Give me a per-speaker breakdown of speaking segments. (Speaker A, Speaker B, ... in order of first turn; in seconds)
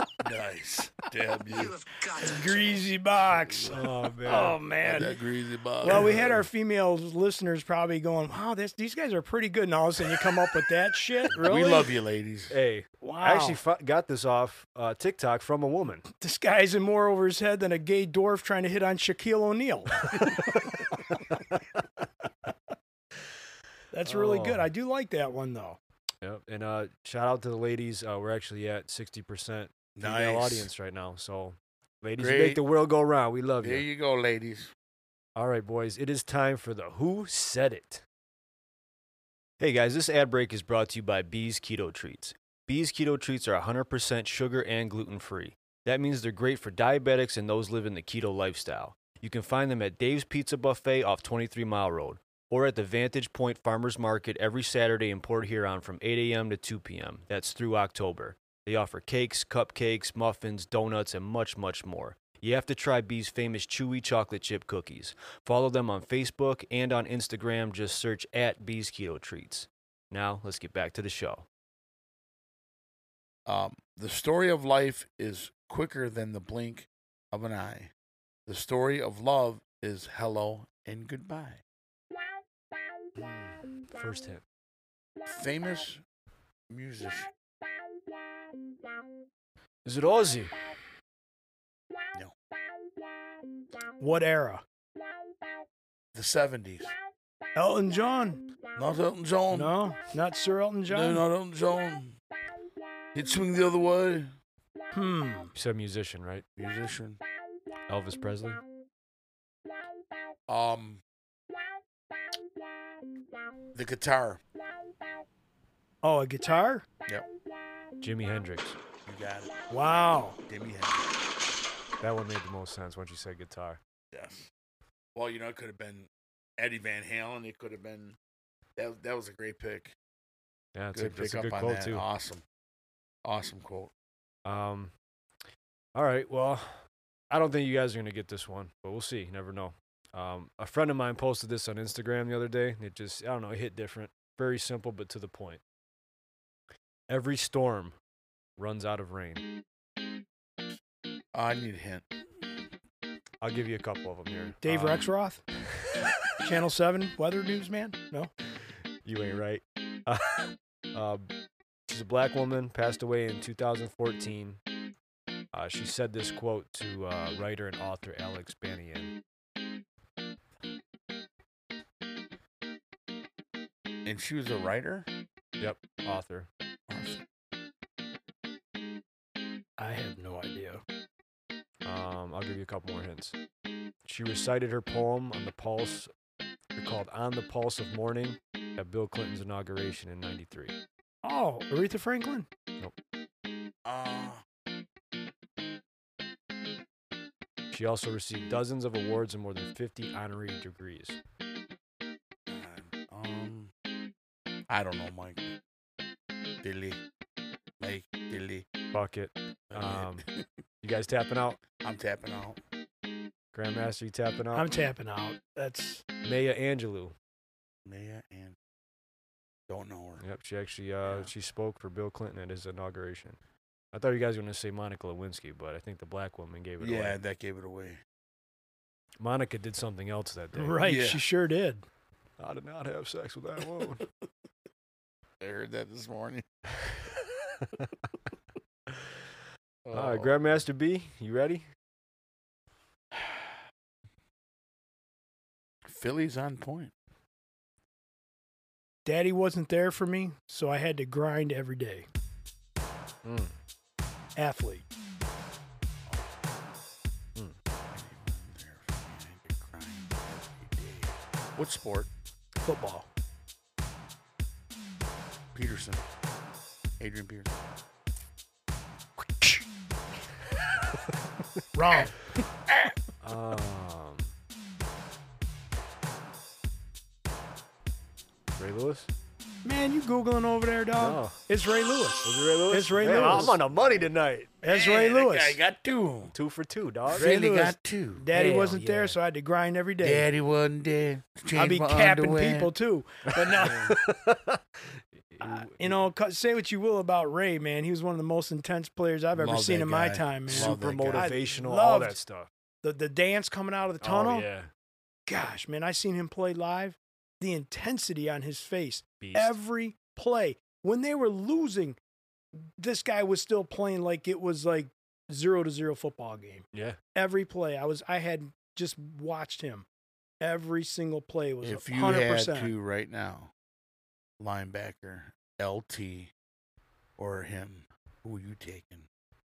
Speaker A: 0.2-1.8, 3.4-3.8, 4.8-6.4, 11.4-12.5, 30.0-30.7, 32.2-32.6, 33.6-34.7, 73.5-77.9, 78.5-81.6, 85.3-86.0, 86.7-87.3, 96.1-96.9, 98.8-99.8, 100.9-102.2, 103.1-104.3, 106.6-107.2, 110.5-111.0, 113.7-114.4, 119.1-119.5, 120.5-121.1, 124.1-124.5, 125.2-128.2, 128.8-129.9, 130.9-132.4, 133.2-133.9, 151.3-152.1, 174.1-175.1, 176.9-177.2, 193.8-194.4, 202.5-203.7, 204.7-205.6, 206.6-207.0, 207.8-208.7, 209.7-210.4, 211.8-212.6, 217.9-218.6, 219.7-220.2, 221.0-221.3, 226.8-228.0, 230.8-231.2, 235.4-236.5, 239.8-240.6, 245.8-246.9, 256.1-256.4, 257.9-262.1, 265.5-266.0, 267.0-267.5, 283.0-283.9, 284.7-286.3, 287.1-288.2, 290.0-292.7, 299.3-301.3, 321.6-323.5, 324.4-326.3, 327.2-329.1
Speaker B: 2.1-5.2, 5.8-11.9, 13.0-13.6, 16.1-20.4, 23.9-25.8, 94.0-94.6, 97.6-98.4, 99.5-101.2, 104.9-105.5, 116.0-116.9, 119.7-120.4, 154.6-155.4, 156.4-158.3, 179.8-180.8, 191.2-192.5, 214.5-216.1, 230.5-231.8, 249.1-252.1, 254.4-254.8, 262.6-263.1, 271.8-272.3, 279.6-283.6, 284.6-285.6, 287.2-290.3, 291.5-293.9, 295.4-302.2, 302.8-304.5, 305.3-312.0, 312.8-319.9, 320.4-322.7
Speaker C: 3.7-4.6, 5.9-6.4, 12.5-16.1, 24.1-24.7, 26.2-33.9, 35.4-38.0, 39.6-71.5, 83.2-84.4, 89.8-90.5, 105.5-106.5, 107.9-108.6, 118.0-118.8, 122.0-123.8, 130.8-132.1, 134.4-134.9, 135.9-136.8, 137.3-145.6, 147.1-147.9, 148.6-149.4, 153.4-155.1, 159.1-161.3, 161.9-164.6, 165.5-169.1, 175.6-176.5, 181.8-183.3, 184.1-186.1, 186.8-190.8, 197.7-201.2, 208.9-210.2, 210.8-211.6, 213.5-214.7, 216.2-217.1, 220.2-223.4, 223.9-227.2, 229.2-230.8, 232.4-234.0, 239.9-241.7, 253.2-253.6, 273.2-274.3, 278.6-279.1, 281.0-281.4, 282.2-284.5, 286.3-287.3, 288.3-289.2, 293.4-296.1, 300.5-302.5, 304.0-304.7, 309.2-309.5, 316.7-317.0